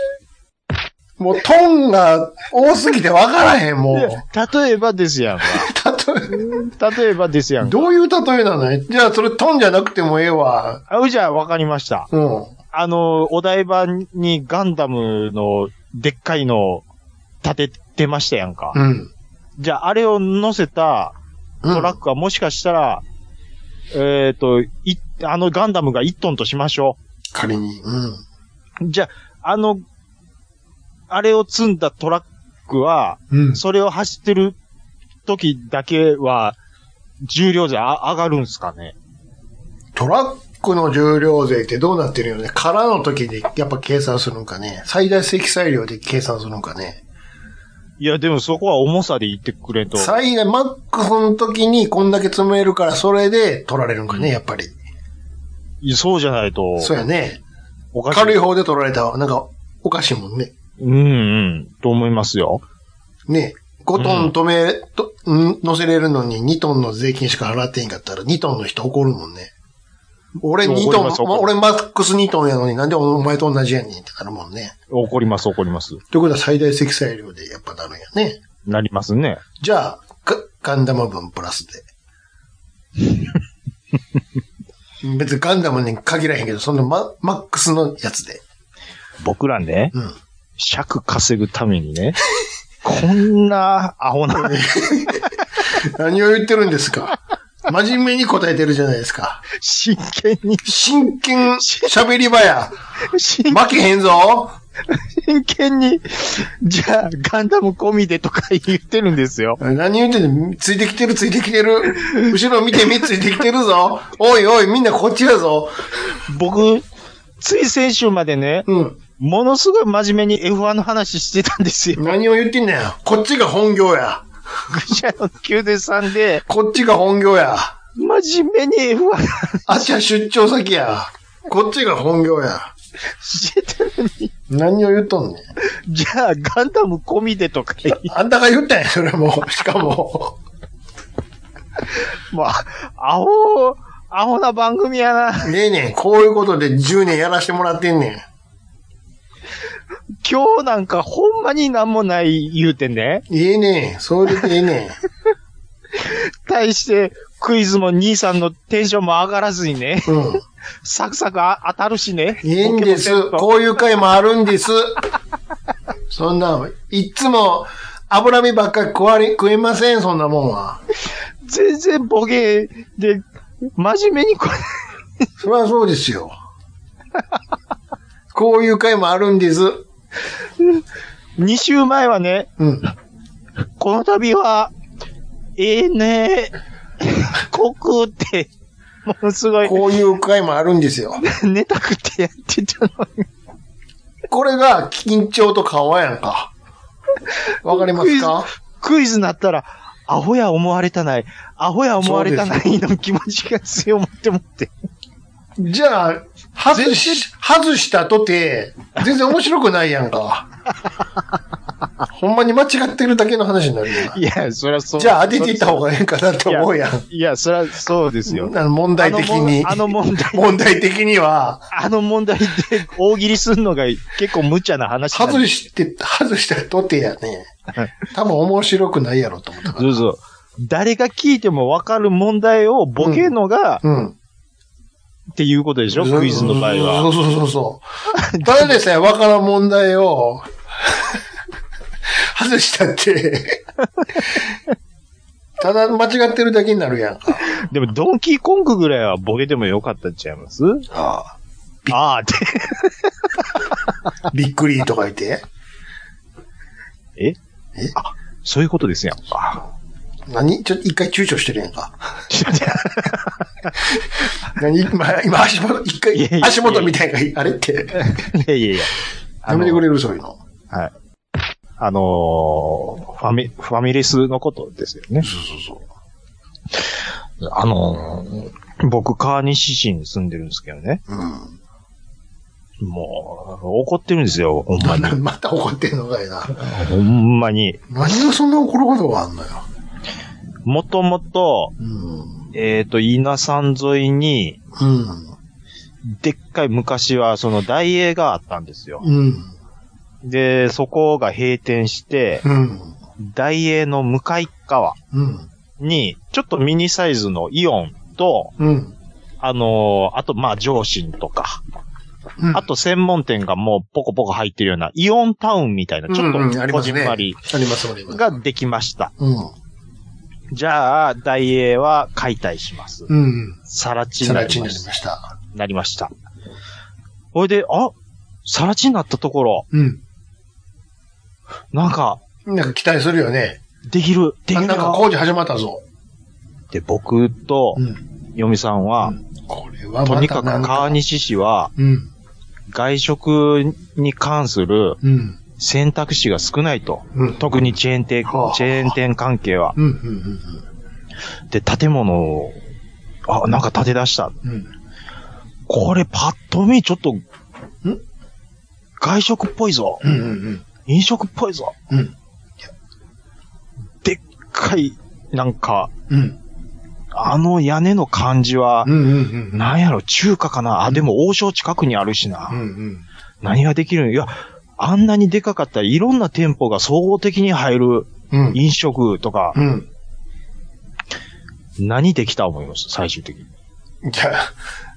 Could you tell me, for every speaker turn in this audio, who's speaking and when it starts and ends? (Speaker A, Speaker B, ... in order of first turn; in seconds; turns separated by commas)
Speaker A: 1.2-4.2, Speaker B: 3.9-5.7, Speaker A: 5.5-6.4, Speaker B: 6.3-7.9, Speaker A: 7.6-10.8, Speaker B: 10.9-12.1, Speaker A: 12.1-12.5, Speaker B: 12.7-16.8, Speaker B: 17.4-18.8, Speaker A: 18.7-19.1, Speaker B: 19.6-21.1, Speaker A: 21.6-21.9, Speaker B: 21.7-23.0, Speaker B: 23.9-27.0, Speaker A: 27.3-28.2, Speaker B: 28.8-29.8, Speaker B: 31.1-34.6, Speaker A: 33.3-33.6, Speaker B: 35.3-36.6, Speaker B: 37.2-39.0, Speaker A: 39.9-47.0, Speaker B: 48.0-50.2, Speaker A: 50.0-54.8, Speaker B: 55.8-56.9, Speaker A: 56.8-57.4, Speaker B: 57.9-58.4, Speaker A: 58.1-60.5, Speaker B: 60.8-62.6, Speaker A: 63.3-69.5, Speaker B: 64.0-64.3, Speaker A: 70.4-74.7, Speaker B: 70.6-71.5, Speaker B: 74.9-76.0, Speaker A: 76.1-78.4, Speaker B: 78.7-79.4, Speaker A: 79.6-81.8, Speaker A: 85.0-88.4, Speaker B: 89.2-89.9, Speaker B: 90.6-92.2, Speaker B: 92.8-94.6, Speaker A: 94.4-99.4, Speaker B: 99.5-100.7, Speaker A: 100.7-102.7, Speaker B: 101.6-101.9, Speaker B: 103.1-103.7, Speaker A: 103.5-104.5, Speaker B: 104.9-109.6, Speaker A: 109.6-115.7, Speaker B: 116.3-116.8, Speaker B: 117.4-118.7, Speaker A: 118.7-119.0, Speaker B: 119.2-122.1, Speaker A: 122.0-124.2, Speaker B: 124.7-126.4, Speaker A: 126.5-127.8, Speaker B: 128.0-129.9, Speaker A: 129.7-132.7, Speaker B: 133.2-134.3, Speaker A: 134.5-135.4, Speaker B: 135.8-138.1, Speaker A: 137.9-140.4, Speaker B: 142.3-145.5, Speaker A: 145.4-148.3, Speaker B: 150.2-153.2, Speaker A: 153.3-155.0, Speaker B: 156.0-160.2, Speaker A: 160.1-160.4, Speaker B: 160.8-163.5, Speaker A: 162.4-165.0, Speaker A: 166.1-170.8, Speaker B: 171.4-173.2, Speaker B: 173.8-174.8, Speaker A: 175.4-176.3, Speaker A: 178.3-179.8, Speaker B: 181.4-182.5, Speaker A: 182.6-182.9, Speaker B: 183.8-184.7, Speaker B: 185.6-188.5, Speaker B: 189.1-189.8, Speaker A: 189.6-191.2, Speaker B: 191.2-193.3, Speaker A: 194.3-196.5, Speaker A: 197.6-198.5, Speaker B: 197.7-204.7, Speaker A: 202.0-202.7, Speaker A: 205.6-210.5, Speaker B: 206.7-207.2, Speaker A: 212.1-214.2, Speaker B: 214.1-215.9, Speaker A: 215.0-217.0, Speaker B: 216.5-220.5, Speaker A: 218.3-221.7, Speaker B: 221.7-225.5, Speaker A: 225.1-227.5, Speaker A: 228.0-229.9, Speaker B: 229.8-233.8, Speaker A: 233.0-233.3, Speaker A: 233.8-234.2, Speaker B: 235.4-237.1, Speaker A: 235.9-237.8, Speaker B: 238.1-238.7, Speaker A: 238.4-241.2, Speaker A: 242.2-243.6, Speaker A: 245.6-247.4, Speaker B: 247.6-250.9, Speaker A: 250.9-252.0, Speaker B: 251.9-253.1, Speaker A: 254.3-255.4, Speaker B: 257.9-259.7, Speaker A: 260.3-262.2, Speaker B: 262.3-263.3, Speaker A: 263.9-268.1, Speaker B: 266.1-266.9, Speaker B: 267.9-269.8, Speaker A: 269.5-270.4, Speaker B: 271.8-275.3, Speaker A: 275.2-275.9, Speaker B: 276.7-281.0, Speaker A: 281.1-281.6, Speaker B: 282.8-285.2, Speaker A: 284.8-286.6, Speaker B: 286.5-287.8, Speaker A: 287.9-289.6, Speaker B: 290.6-291.7, Speaker A: 291.8-292.4, Speaker B: 292.5-294.6, Speaker A: 294.8-295.3, Speaker B: 296.1-299.1, Speaker A: 299.0-299.5, Speaker B: 300.2-302.4, Speaker A: 302.4-302.9, Speaker B: 303.2-305.0, Speaker A: 305.1-305.5, Speaker B: 305.8-308.5, Speaker A: 308.6-308.9, Speaker B: 309.4-311.6, Speaker A: 312.4-312.6, Speaker B: 312.5-317.4, Speaker A: 316.1-318.3, Speaker B: 318.1-319.1, Speaker A: 319.2-319.5, Speaker B: 320.5-323.1, Speaker A: 323.1-323.6, Speaker B: 323.7-324.9, Speaker A: 324.2-325.3, Speaker B: 325.5-326.1, Speaker B: 327.3-327.9, Speaker B: 328.5-329.7, Speaker A: 329.7-330.0, Speaker B: 331.7-332.2, Speaker A: 332.4-333.6, Speaker B: 333.9-335.0, Speaker A: 334.5-335.8, Speaker B: 336.7-337.8, Speaker B: 338.4-339.2, Speaker A: 339.0-341.0, Speaker B: 340.1-341.7, Speaker A: 341.8-342.1, Speaker B: 342.7-345.0, Speaker A: 345.0-345.4, Speaker B: 345.6-349.8, Speaker A: 347.1-347.4, Speaker A: 348.3-348.9, Speaker A: 349.8-350.6, Speaker B: 351.5-352.6, Speaker B: 353.3-354.4, Speaker A: 354.4-354.7, Speaker B: 355.7-357.2, Speaker B: 359.0-360.2, Speaker A: 360.0-360.6, Speaker B: 360.9-361.8, Speaker B: 364.0-365.9, Speaker A: 366.1-366.4, Speaker B: 367.1-369.0, Speaker A: 368.9-369.6, Speaker B: 369.5-372.6, Speaker A: 372.5-373.0, Speaker B: 373.4-379.6, Speaker A: 378.3-378.6, Speaker A: 379.5-379.9, Speaker B: 381.8-383.5, Speaker A: 384.0-384.5